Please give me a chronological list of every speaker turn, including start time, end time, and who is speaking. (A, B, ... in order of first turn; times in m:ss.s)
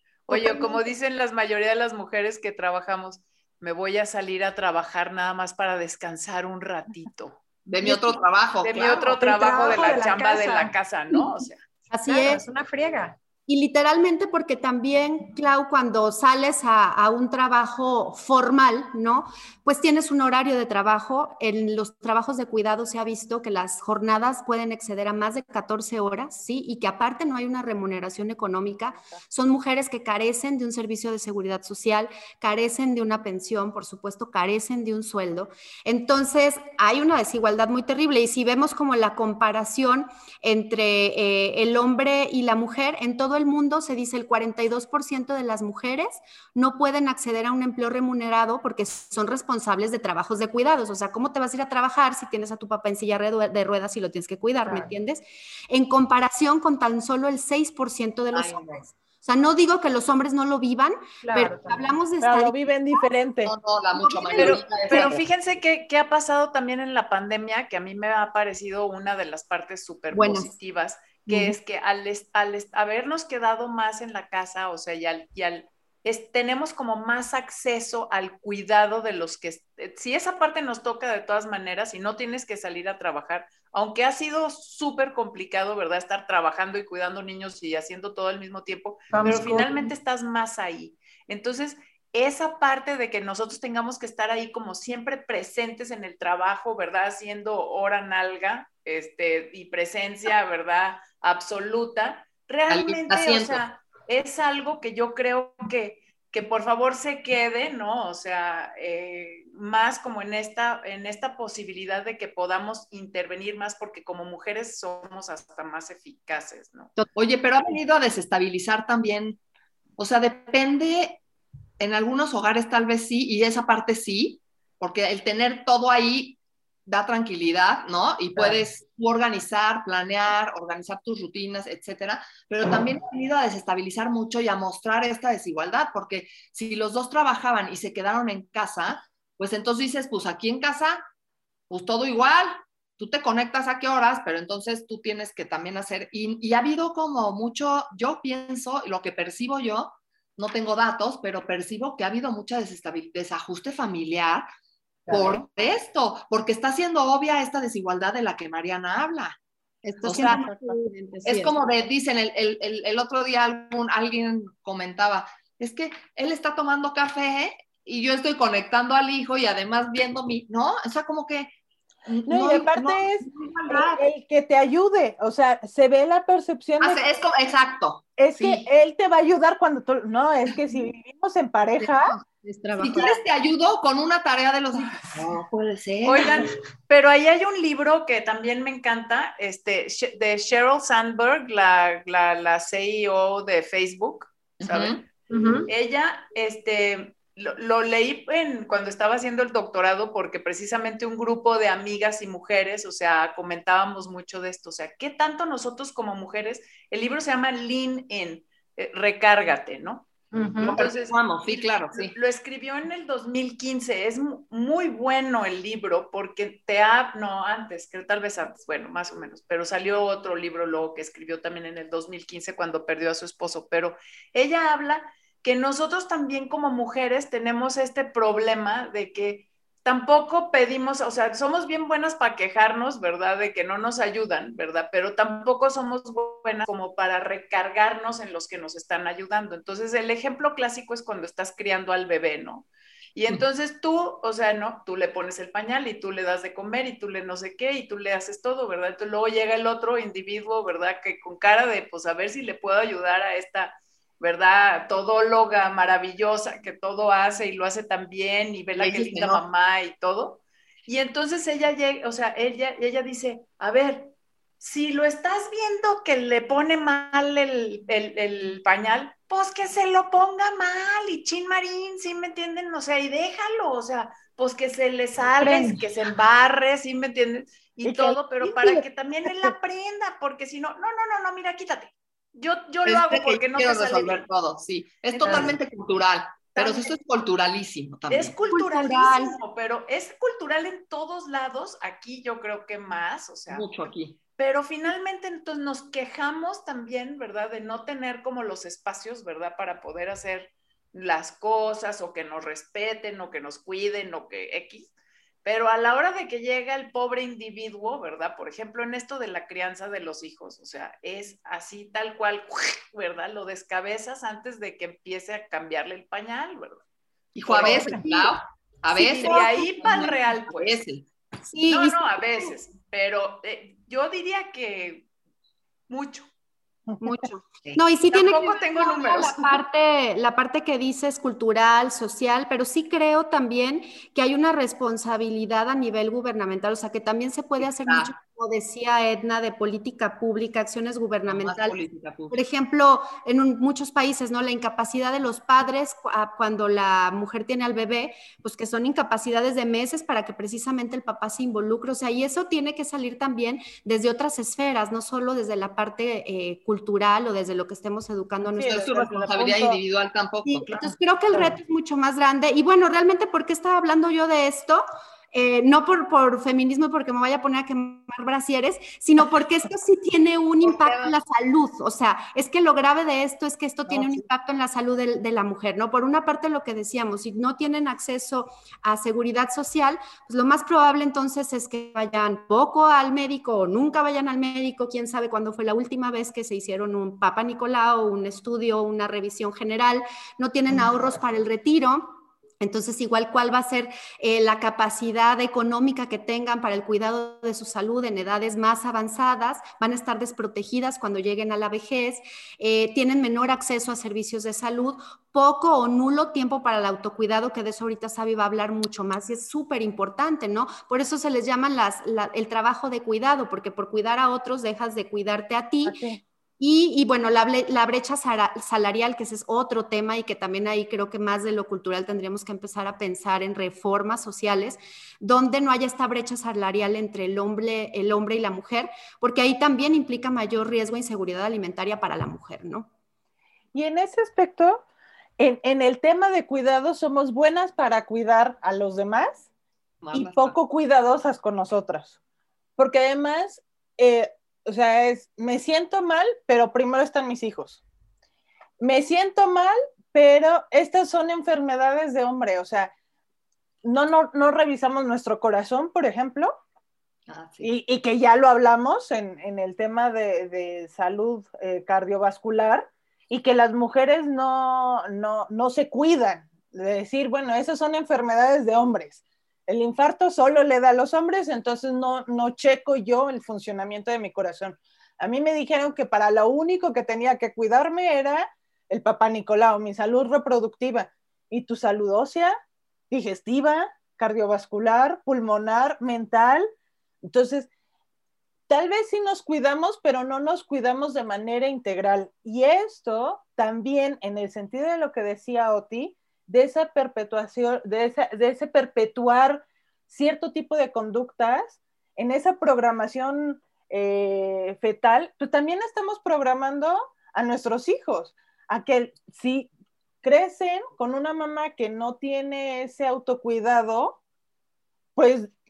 0:00.3-0:11.6 A
0:07.7-0:09.2 B
0:09.2-0:10.7 C
0:11.9-0:12.4 D
0:12.1-0:13.2 C
0:13.5-1:03.0 D
0:54.7-0:54.9 C
0:58.3-0:58.8 B
1:01.2-1:02.0 C
1:02.2-1:03.5 E
1:03.5-1:05.2 B
1:04.0-1:05.1 D
1:04.4-1:56.9 A
1:10.1-1:10.5 D
1:29.1-1:29.9 C
1:42.7-1:43.6 B
1:57.2-1:59.4 B
2:00.0-2:01.2 B
2:01.8-2:21.0 B
2:21.7-2:34.5 B
2:35.1-2:35.4 C
2:35.1-2:39.4 B
2:39.8-2:41.6 D
2:40.0-2:40.4 B
2:41.3-2:51.5 B
2:52.1-2:54.1 B
2:52.3-2:57.0 E
2:56.8-2:58.7 B
2:58.2-3:02.2 E
3:01.8-3:03.2 D
3:02.8-3:06.4 B
3:06.0-3:15.0 A
3:14.6-3:15.0 B
3:15.3-3:15.7 C
3:15.7-3:30.1 A
3:30.3-3:30.8 C
3:30.6-4:44.3 A
3:30.6-3:32.1 B
4:18.8-4:19.4 B
4:35.4-4:35.8 C
4:37.8-4:39.5 E
4:42.9-4:48.4 B
4:45.2-4:45.6 C
4:45.2-4:45.5 A
4:46.6-4:46.9 A
4:48.1-4:53.7 A
4:48.5-4:49.4 D
4:53.5-4:54.2 B
4:54.4-5:04.9 A
5:05.4-5:16.8 A
5:17.4-5:21.1 B
5:17.5-5:18.3 A
5:17.7-5:18.2 D
5:18.9-5:20.1 D
5:19.0-5:20.8 A
5:21.5-5:22.2 D
5:21.7-5:25.1 A
5:25.9-5:26.3 A
5:27.0-5:41.8 D
5:28.1-5:29.6 A
5:37.6-5:38.1 B
5:41.3-5:42.4 B
5:42.3-5:59.5 D
5:58.5-5:59.8 E
5:58.7-6:00.8 B
6:00.4-6:56.0 D
6:10.6-6:11.2 B
6:13.9-6:14.2 E
6:55.8-6:56.2 E
6:56.6-7:12.9 D
7:13.7-7:14.8 E
7:15.4-7:19.5 E
7:20.0-7:20.6 B
7:20.1-7:22.2 E
7:22.8-7:27.8 E
7:28.8-7:32.9 E
7:33.8-7:36.5 E
7:37.3-7:37.7 B
7:37.6-8:02.6 E
8:03.1-8:06.7 E
8:07.2-8:07.7 E
8:08.7-8:29.7 E
8:30.2-8:34.2 E
8:35.2-8:35.5 E